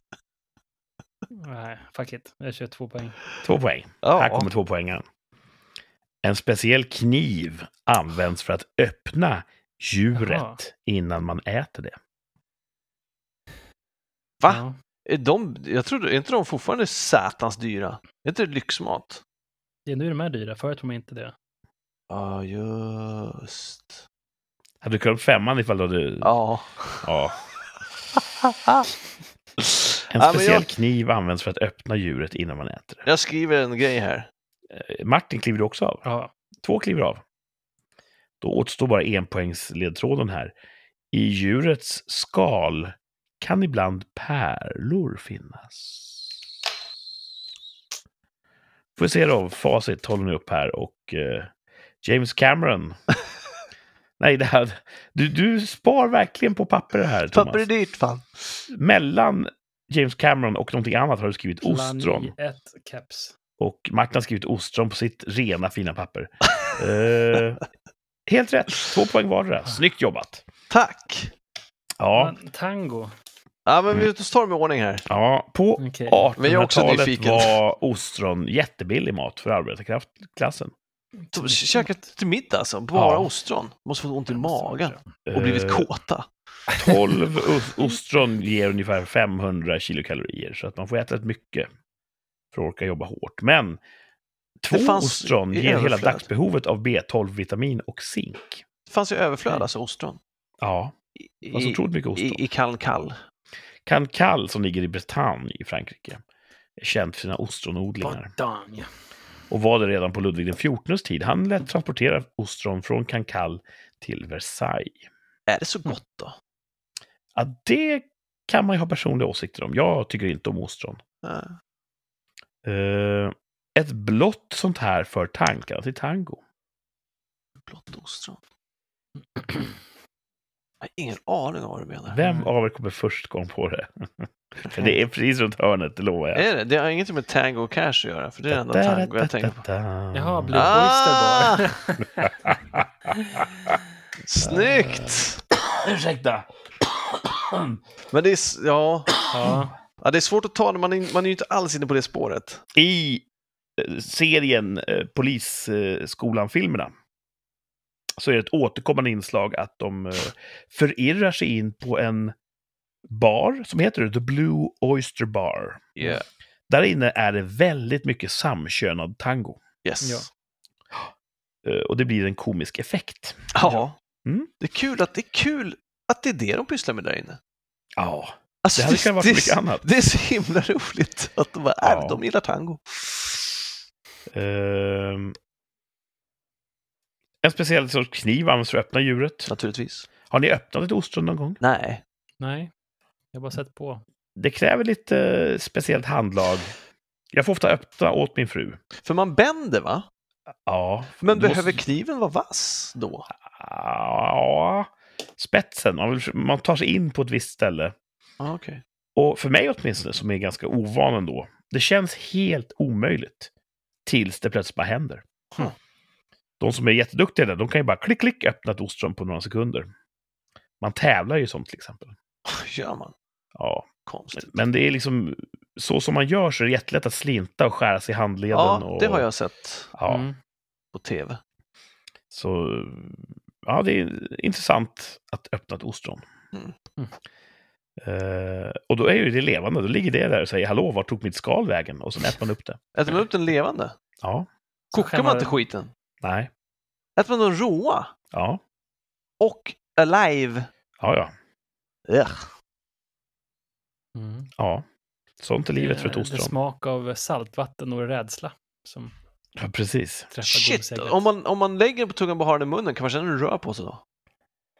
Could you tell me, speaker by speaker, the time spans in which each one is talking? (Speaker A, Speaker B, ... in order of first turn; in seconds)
Speaker A: 1.3-3.2, 10.1-10.6, 14.4-14.8, 19.9-21.3, 36.0-36.3, 61.6-63.4, 72.1-73.1, 75.8-76.3, 81.3-81.9, 84.3-85.0, 108.0-108.9, 132.2-132.5, 140.1-142.3, 144.6-145.1, 149.3-149.7, 170.0-170.3, 192.4-192.7, 193.3-194.0, 230.1-230.3, 244.9-245.6, 254.1-254.5, 255.8-259.1, 260.3-261.3
Speaker B: 3.4-5.0, 6.2-11.9, 24.8-26.3, 27.0-27.4, 30.1-33.0, 34.7-36.0, 36.6-37.2, 38.4-40.5, 41.1-46.3, 49.0-51.5, 52.0-53.0, 54.2-57.7, 58.7-62.3, 63.6-67.6, 68.3-70.5, 72.0-72.3, 75.1-80.7, 82.9-83.3, 85.3-85.9, 86.7-91.7, 92.5-93.8, 94.6-98.6, 100.6-100.9, 101.5-102.4, 103.8-106.2, 106.8-108.3, 109.5-115.1, 117.3-121.0, 122.6-126.4, 132.1-136.4, 138.5-140.8, 142.2-143.7, 144.4-145.0, 145.5-147.8, 152.7-153.2, 153.8-156.9, 158.2-162.3, 163.1-166.1, 166.7-169.6, 171.6-173.5, 174.2-174.5, 178.0-179.8, 181.8-182.2, 184.3-185.3, 187.4-189.5, 190.3-191.6, 194.3-196.7, 197.3-198.8, 200.7-201.8, 203.5-207.9, 209.2-213.5, 214.1-215.2, 216.6-219.9, 220.8-222.1, 223.6-229.3, 229.9-230.3, 232.3-236.2, 238.0-242.8, 244.2-244.5, 246.2-246.5, 248.3-248.6, 251.0-251.3, 254.6-254.8, 255.4-256.5, 259.6-260.3
Speaker C: 4.0-4.5, 14.4-19.2, 22.1-24.0, 26.2-27.2, 28.4-28.9, 29.6-30.7, 33.0-34.3, 57.3-58.6, 70.7-71.3, 73.7-75.0, 76.4-77.6, 81.3-86.2, 94.7-96.3, 98.9-100.2, 101.2-103.2, 115.5-116.3, 121.2-121.6, 127.7-128.4, 130.8-132.2, 134.6-134.9, 136.3-139.6, 140.5-141.7, 144.2-145.4, 148.1-149.3, 150.0-152.6, 166.0-166.2, 169.8-170.3, 173.5-173.9, 174.6-177.4, 178.6-183.2, 189.5-190.1, 191.6-192.0, 199.0-200.1, 201.2-203.3, 208.4-208.8, 222.4-223.1, 224.1-224.6, 228.5-229.9, 230.9-231.4, 242.9-243.9, 244.9-245.9, 247.2-248.1, 249.4-250.7, 252.1-252.5, 260.4-264.0